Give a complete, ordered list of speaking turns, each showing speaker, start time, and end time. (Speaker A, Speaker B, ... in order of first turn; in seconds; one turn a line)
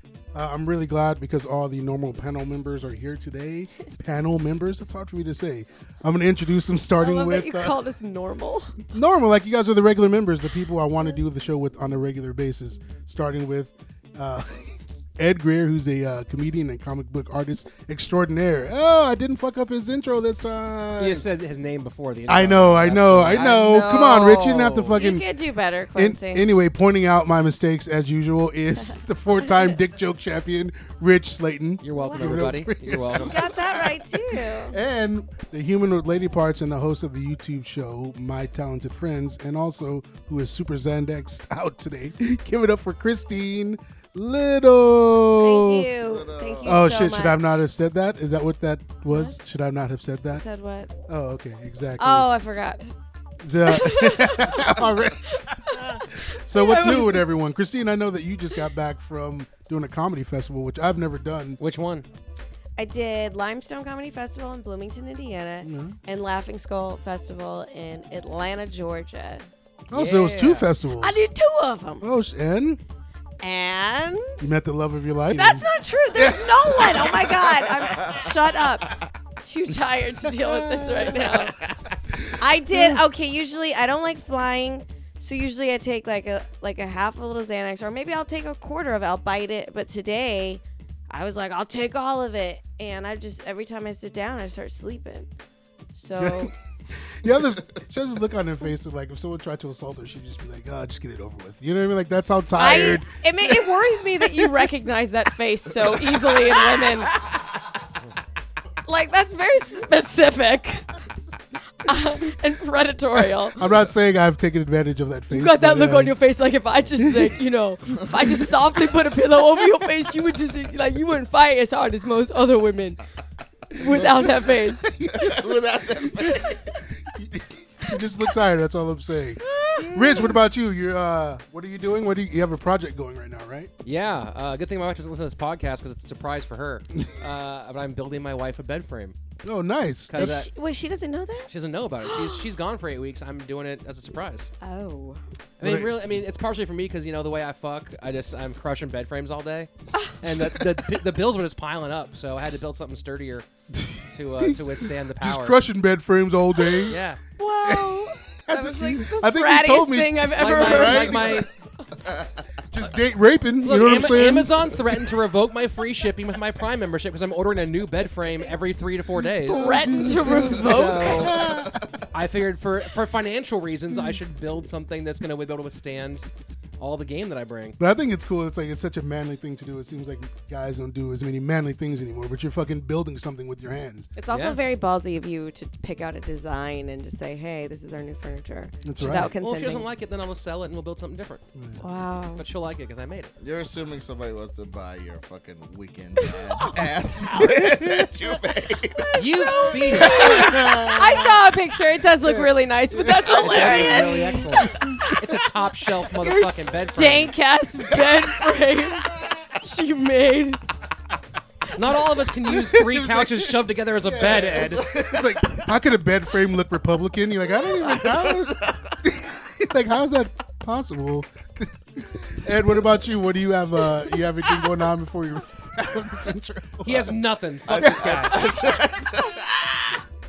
Speaker A: 0.3-7.8
Speaker B: 7.0-8.8
Speaker A: 8.9-21.3
Speaker C: 21.0-23.6
Speaker A: 22.3-25.2
Speaker D: 23.3-24.9
Speaker B: 24.9-26.5
Speaker A: 26.0-45.9
Speaker B: 28.9-29.8
Speaker C: 31.8-33.4
Speaker B: 31.9-32.3
Speaker B: 33.1-34.8
Speaker B: 45.4-47.6
Speaker D: 46.0-46.8
Speaker A: 46.6-50.4
Speaker B: 49.1-49.4
Speaker B: 50.3-50.9
Speaker A: 51.1-52.3
Speaker B: 52.0-52.9
Speaker A: 53.4-55.2
Speaker B: 53.6-57.3
Speaker A: 56.2-61.6
Speaker C: 61.6-62.1
Speaker B: 62.8-69.5
Speaker A: 65.6-66.0
Speaker A: 69.9-71.3
Speaker C: 69.9-70.7
Speaker B: 71.0-72.0
Speaker A: 72.0-72.8
Speaker B: 73.4-74.5
Speaker A: 74.4-77.3
Speaker B: 75.3-81.6
Speaker D: 77.7-78.3
Speaker D: 81.2-81.9
Speaker A: 82.1-83.0
Speaker B: 82.4-95.3
Speaker B: 95.9-96.5
Speaker A: 96.2-96.5
Speaker A: 97.1-104.6
Speaker B: 102.6-107.2
Speaker B: 108.8-111.0
Speaker B: 111.8-113.6
Speaker A: 113.6-116.2
Speaker B: 115.3-123.0
Speaker A: 117.0-117.3
Speaker B: 123.8-125.4
Speaker A: 123.8-125.5
Speaker D: 125.1-126.6
Speaker A: 126.0-133.7
Speaker B: 126.2-126.5
Speaker B: 129.5-130.4
Speaker C: 133.8-139.2
Speaker A: 139.4-140.5
Speaker C: 140.1-140.5
Speaker B: 140.2-141.5
Speaker C: 141.5-144.5
Speaker B: 142.0-142.4
Speaker B: 144.6-145.2
Speaker C: 145.6-149.7
Speaker A: 145.6-146.0
Speaker C: 150.2-153.5
Speaker A: 153.8-157.0
Speaker C: 154.1-155.6
Speaker C: 156.9-157.2
Speaker B: 157.4-161.5
Speaker A: 157.7-161.5
Speaker C: 160.4-161.5
Speaker D: 162.0-162.5
Speaker A: 162.7-165.1
Speaker C: 163.6-171.6
Speaker A: 169.4-171.8
Speaker B: 169.5-171.4
Speaker D: 171.4-172.0
Speaker C: 172.1-176.3
Speaker C: 176.8-177.8
Speaker A: 177.8-184.1
Speaker B: 184.2-189.9
Speaker C: 184.3-184.6
Speaker A: 188.8-189.3
Speaker C: 189.1-191.4
Speaker A: 191.6-191.8
Speaker B: 191.8-192.4
Speaker C: 192.4-193.3
Speaker D: 193.4-199.2
Speaker B: 196.2-196.7
Speaker A: 197.4-198.1
Speaker B: 199.0-205.0
Speaker C: 199.2-200.6
Speaker D: 199.7-200.9
Speaker A: 200.0-201.3
Speaker A: 202.2-203.8
Speaker D: 203.2-204.0
Speaker C: 203.4-207.3
Speaker A: 204.6-205.1
Speaker B: 206.2-210.6
Speaker C: 211.7-214.9
Speaker A: 212.5-228.3
Speaker D: 214.4-215.7
Speaker D: 217.7-218.9
Speaker C: 226.8-228.5
Speaker D: 227.7-230.0